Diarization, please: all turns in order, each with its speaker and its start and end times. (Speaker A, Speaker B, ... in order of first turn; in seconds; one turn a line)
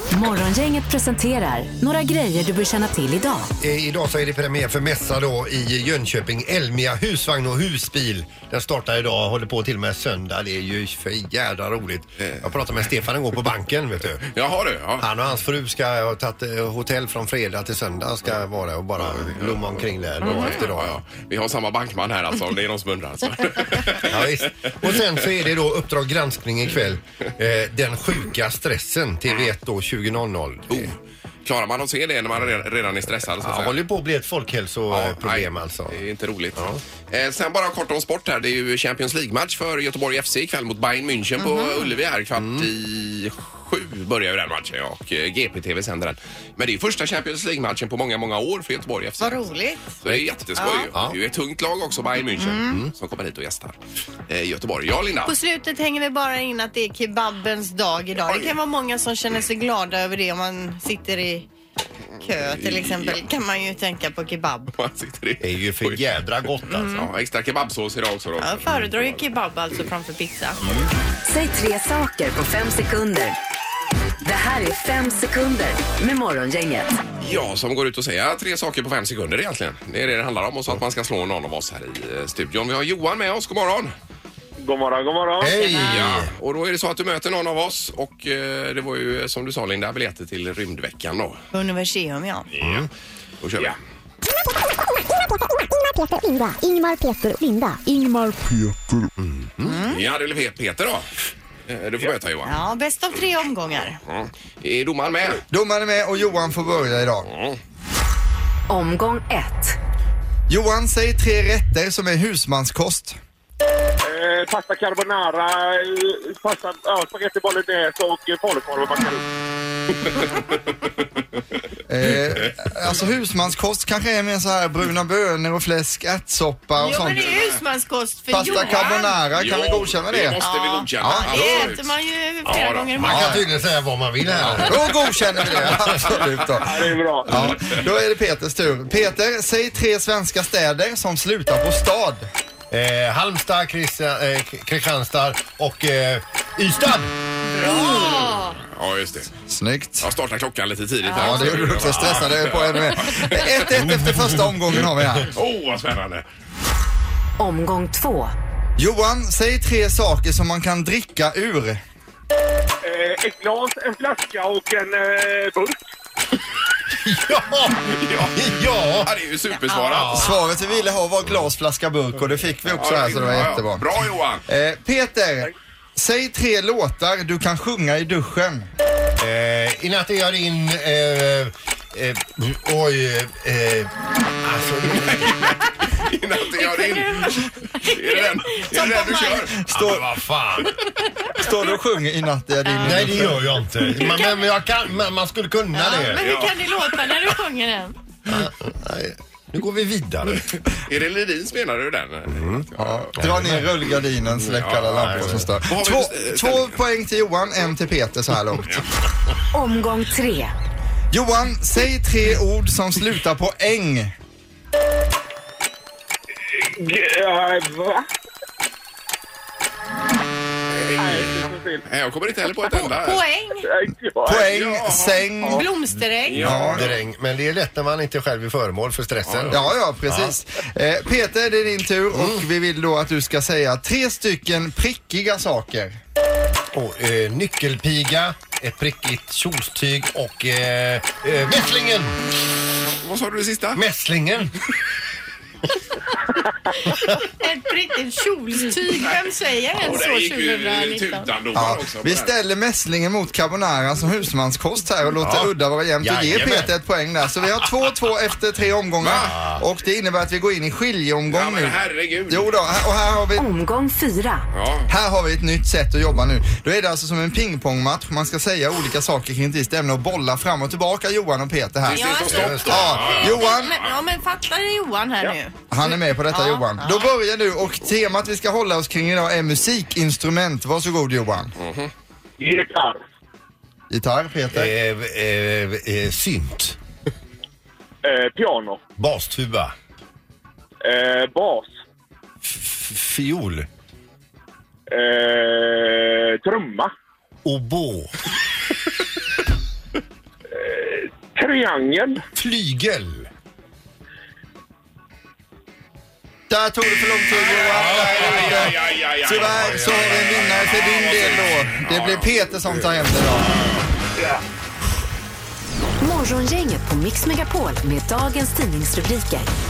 Speaker A: 0.1-3.5
Speaker B: 3.6-14.3
Speaker C: 12.2-12.9
Speaker C: 14.3-15.1
Speaker B: 15.0-21.0
Speaker C: 19.0-24.2
Speaker D: 20.2-20.6
Speaker B: 24.0-30.9
Speaker C: 30.7-33.8
Speaker B: 33.4-36.0
Speaker C: 34.9-55.3
Speaker D: 41.4-41.9
Speaker B: 42.4-42.7
Speaker D: 49.2-50.0
Speaker D: 50.6-50.9
Speaker D: 52.4-52.9
Speaker D: 55.2-61.5
Speaker C: 62.2-63.3
Speaker D: 62.2-64.7
Speaker C: 64.7-66.1
Speaker B: 65.4-66.9
Speaker D: 66.7-67.1
Speaker C: 66.7-69.3
Speaker D: 68.4-70.6
Speaker B: 70.6-70.9
Speaker A: 71.2-73.4
Speaker A: 74.2-77.0
Speaker C: 77.2-83.9
Speaker E: 84.6-86.0
Speaker B: 85.4-86.3
Speaker C: 85.7-91.4
Speaker D: 91.5-92.5
Speaker C: 92.5-92.9
Speaker B: 92.6-92.9
Speaker C: 93.4-93.8
Speaker F: 95.8-98.3
Speaker B: 99.2-99.8
Speaker D: 99.6-100.0
Speaker C: 99.9-101.1
Speaker C: 101.7-102.5
Speaker D: 102.4-104.0
Speaker C: 104.1-105.4
Speaker G: 105.5-107.3
Speaker C: 107.2-107.6
Speaker A: 108.7-109.8
Speaker G: 110.5-113.2
Speaker E: 114.0-119.3
Speaker C: 120.2-120.6
Speaker G: 121.9-127.3
Speaker D: 126.8-129.0
Speaker G: 128.3-130.4
Speaker C: 128.4-132.9
Speaker D: 130.4-133.4
Speaker G: 131.0-131.7
Speaker B: 132.5-136.2
Speaker G: 133.0-133.4
Speaker G: 134.3-142.2
Speaker E: 136.6-137.8
Speaker B: 142.7-147.1
Speaker D: 147.6-148.6
Speaker C: 147.7-149.3
Speaker G: 149.5-150.1
Speaker C: 150.0-153.8
Speaker G: 151.1-155.3
Speaker B: 151.9-152.3
Speaker B: 153.7-154.5
Speaker C: 154.7-156.2
Speaker A: 157.4-158.3
Speaker G: 158.8-161.8
Speaker E: 162.8-165.8
Speaker B: 166.9-167.8
Speaker C: 167.9-170.3
Speaker B: 168.3-169.1
Speaker D: 169.5-169.9
Speaker B: 169.9-170.3
Speaker G: 170.2-178.7
Speaker C: 172.7-174.4
Speaker B: 179.2-185.5
Speaker C: 185.4-189.6
Speaker D: 186.6-189.5
Speaker G: 189.7-190.1
Speaker B: 189.7-190.7
Speaker G: 191.3-193.4
Speaker D: 192.7-193.1
Speaker B: 192.8-196.3
Speaker D: 193.9-194.4
Speaker D: 195.7-197.9
Speaker C: 196.2-197.3
Speaker B: 198.3-200.4
Speaker C: 200.3-203.2
Speaker B: 202.3-202.7
Speaker G: 202.8-208.8
Speaker B: 203.2-203.7
Speaker C: 204.3-206.8
Speaker B: 204.9-205.5
Speaker A: 209.5-210.6
Speaker G: 211.1-214.1
Speaker E: 216.6-218.0
Speaker E: 220.8-221.9
Speaker C: 220.9-221.2
Speaker C: 221.8-223.2
Speaker D: 223.0-223.7
Speaker E: 223.6-224.7
Speaker G: 224.2-225.7
Speaker C: 224.5-225.3
Speaker D: 225.4-226.6
Speaker C: 226.3-227.0
Speaker G: 226.3-226.9
Speaker B: 226.4-230.3
Speaker C: 229.2-229.7
Speaker G: 229.5-235.9
Speaker B: 232.1-232.5
Speaker B: 236.7-242.1
Speaker C: 243.0-243.8
Speaker B: 243.8-244.6
Speaker D: 246.8-251.3
Speaker C: 249.8-252.3
Speaker G: 251.5-263.5
Speaker B: 255.2-256.7
Speaker C: 259.0-259.3
Speaker B: 259.1-259.6
Speaker C: 261.3-262.5
Speaker A: 263.4-264.5
Speaker C: 264.5-264.9
Speaker G: 264.9-273.8
Speaker C: 271.9-273.9
Speaker D: 271.9-277.1
Speaker B: 272.2-273.2
Speaker G: 275.7-281.5
Speaker C: 281.6-281.9
Speaker E: 282.4-283.0
Speaker G: 283.9-284.7
Speaker B: 284.5-286.8
Speaker E: 288.0-288.8
Speaker B: 289.0-289.7
Speaker E: 290.8-291.7
Speaker B: 292.5-293.7
Speaker E: 294.9-296.9
Speaker B: 297.4-298.1
Speaker E: 300.6-302.2
Speaker B: 302.4-303.3
Speaker G: 306.5-313.6
Speaker C: 307.4-312.5
Speaker B: 307.7-308.8
Speaker B: 309.6-310.0
Speaker A: 316.0-319.5